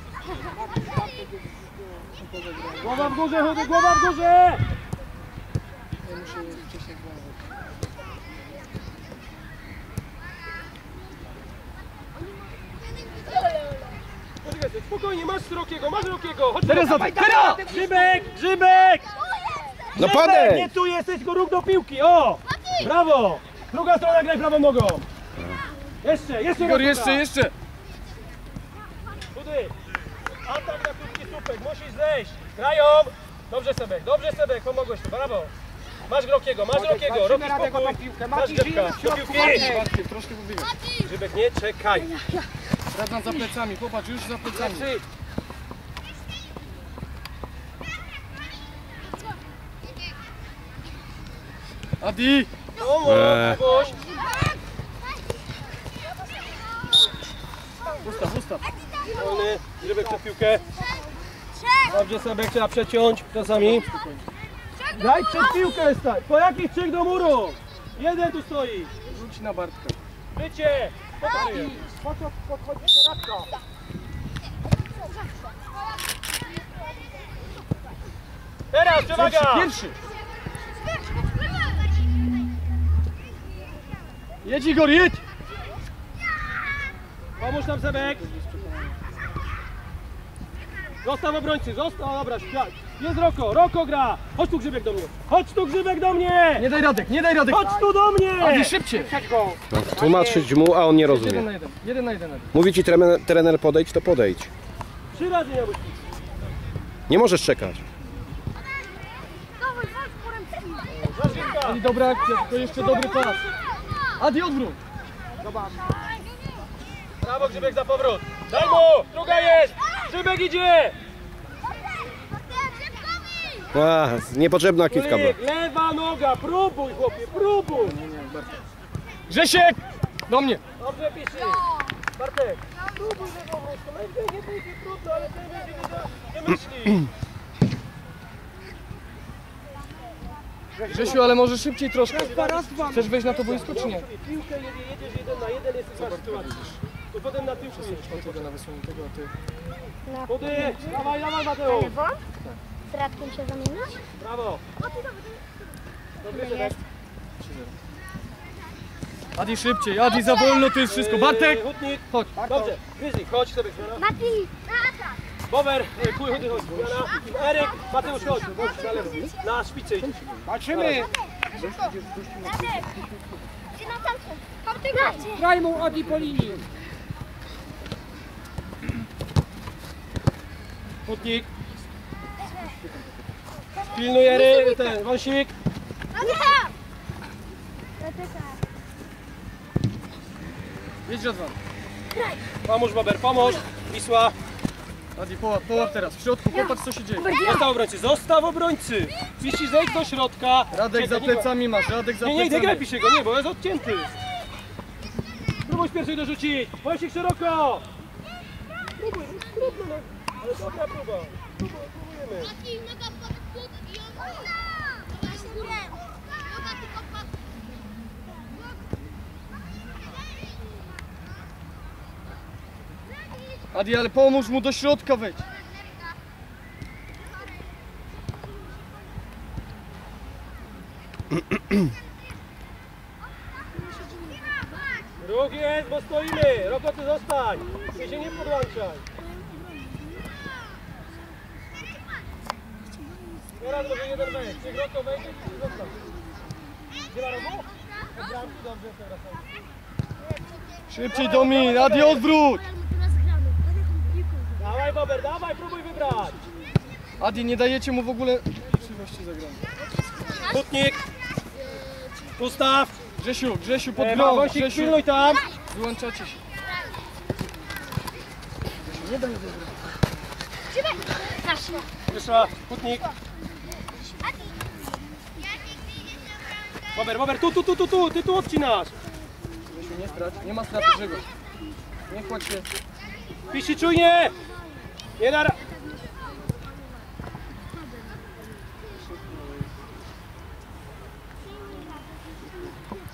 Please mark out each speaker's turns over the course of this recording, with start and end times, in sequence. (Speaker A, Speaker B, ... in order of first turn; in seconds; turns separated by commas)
Speaker A: 0.6-2.1, Speaker B: 2.2-3.2, Speaker C: 2.8-4.6, Speaker B: 6.0-7.4, Speaker D: 13.2-13.8, Speaker C: 14.4-17.2, Speaker B: 16.6-17.7, Speaker A: 16.9-18.2, Speaker C: 17.7-19.0, Speaker D: 19.3-20.0, Speaker E: 20.0-20.7, Speaker C: 20.0-25.1, Speaker C: 26.0-27.2, Speaker B: 26.6-27.5, Speaker C: 29.3-29.7, Speaker C: 30.4-35.5, Speaker C: 36.1-39.7, Speaker A: 36.7-39.9, Speaker B: 39.3-40.7, Speaker C: 41.0-42.1, Speaker B: 42.9-44.9, Speaker C: 44.5-45.0, Speaker B: 52.0-52.5, Speaker C: 52.8-54.0, Speaker E: 53.0-53.6, Speaker B: 58.0-58.6, Speaker D: 58.9-59.2, Speaker C: 59.1-60.6, Speaker C: 61.9-63.9, Speaker B: 63.4-64.2, Speaker C: 64.9-68.9, Speaker B: 69.1-70.0, Speaker C: 70.3-71.8, Speaker A: 71.3-73.5, Speaker C: 78.7-79.7, Speaker B: 79.1-80.0, Speaker B: 84.4-85.2, Speaker C: 87.4-88.2, Speaker B: 88.1-89.0, Speaker C: 91.0-96.7, Speaker B: 96.6-97.8, Speaker C: 97.5-98.7, Speaker B: 98.4-99.1, Speaker A: 98.9-100.5, Speaker E: 99.7-101.5, Speaker B: 101.1-102.5, Speaker E: 102.5-104.5, Speaker C: 105.1-106.0, Speaker E: 107.1-107.8, Speaker D: 109.6-111.0, Speaker C: 110.9-111.8, Speaker B: 111.4-113.4, Speaker D: 112.4-113.6, Speaker B: 114.2-114.8, Speaker A: 115.4-115.9, Speaker C: 117.2-121.0, Speaker E: 123.7-125.4, Speaker C: 124.9-128.0, Speaker B: 127.8-128.6, Speaker B: 129.3-130.6, Speaker C: 130.8-131.6, Speaker C: 132.2-137.1, Speaker A: 140.8-141.4, Speaker B: 140.9-144.1, Speaker A: 142.1-143.1, Speaker C: 142.3-146.6, Speaker B: 146.0-146.8, Speaker C: 147.1-148.5, Speaker B: 147.7-149.3, Speaker D: 150.1-151.1, Speaker C: 150.3-151.9, Speaker D: 151.6-152.2, Speaker D: 152.9-154.0, Speaker C: 154.2-154.6, Speaker D: 154.8-155.4, Speaker C: 156.2-156.8, Speaker D: 156.3-156.8, Speaker B: 157.4-157.8, Speaker B: 159.3-162.3, Speaker D: 160.2-160.7, Speaker C: 160.9-164.0, Speaker A: 162.4-162.8, Speaker D: 164.0-165.2, Speaker C: 165.5-168.8, Speaker B: 166.3-167.3, Speaker B: 168.0-169.4, Speaker C: 169.4-170.2, Speaker B: 170.0-171.0, Speaker A: 170.4-173.2, Speaker C: 170.7-171.0, Speaker D: 171.6-171.9, Speaker D: 173.7-175.4, Speaker A: 175.0-176.6, Speaker C: 181.1-181.5, Speaker D: 183.9-185.0, Speaker C: 183.9-185.5, Speaker D: 186.1-186.7, Speaker D: 188.0-188.6, Speaker B: 191.1-191.6, Speaker C: 192.6-194.3, Speaker B: 195.2-197.3, Speaker D: 196.5-197.7, Speaker C: 197.4-201.5, Speaker B: 200.7-202.8, Speaker C: 202.2-204.1, Speaker C: 205.7-207.8, Speaker C: 209.0-212.5, Speaker D: 212.7-214.4, Speaker D: 215.1-217.2, Speaker B: 223.7-225.4, Speaker D: 234.0-234.4, Speaker C: 235.2-239.0, Speaker C: 243.6-245.9, Speaker C: 247.1-249.4, Speaker B: 250.9-252.7, Speaker C: 251.1-252.2, Speaker D: 252.9-254.5, Speaker C: 254.6-256.4, Speaker B: 257.2-259.6, Speaker D: 260.0-260.4, Speaker C: 260.4-261.0, Speaker D: 261.7-262.3, Speaker C: 262.4-262.9, Speaker B: 263.2-265.0, Speaker C: 264.0-265.4, Speaker B: 265.7-266.4, Speaker B: 268.8-270.0, Speaker D: 270.8-271.9, Speaker C: 272.1-273.0, Speaker D: 274.0-274.6, Speaker C: 276.9-278.9, Speaker B: 279.7-281.3, Speaker B: 282.1-282.7, Speaker C: 283.5-284.4, Speaker C: 285.2-285.6, Speaker B: 288.9-289.7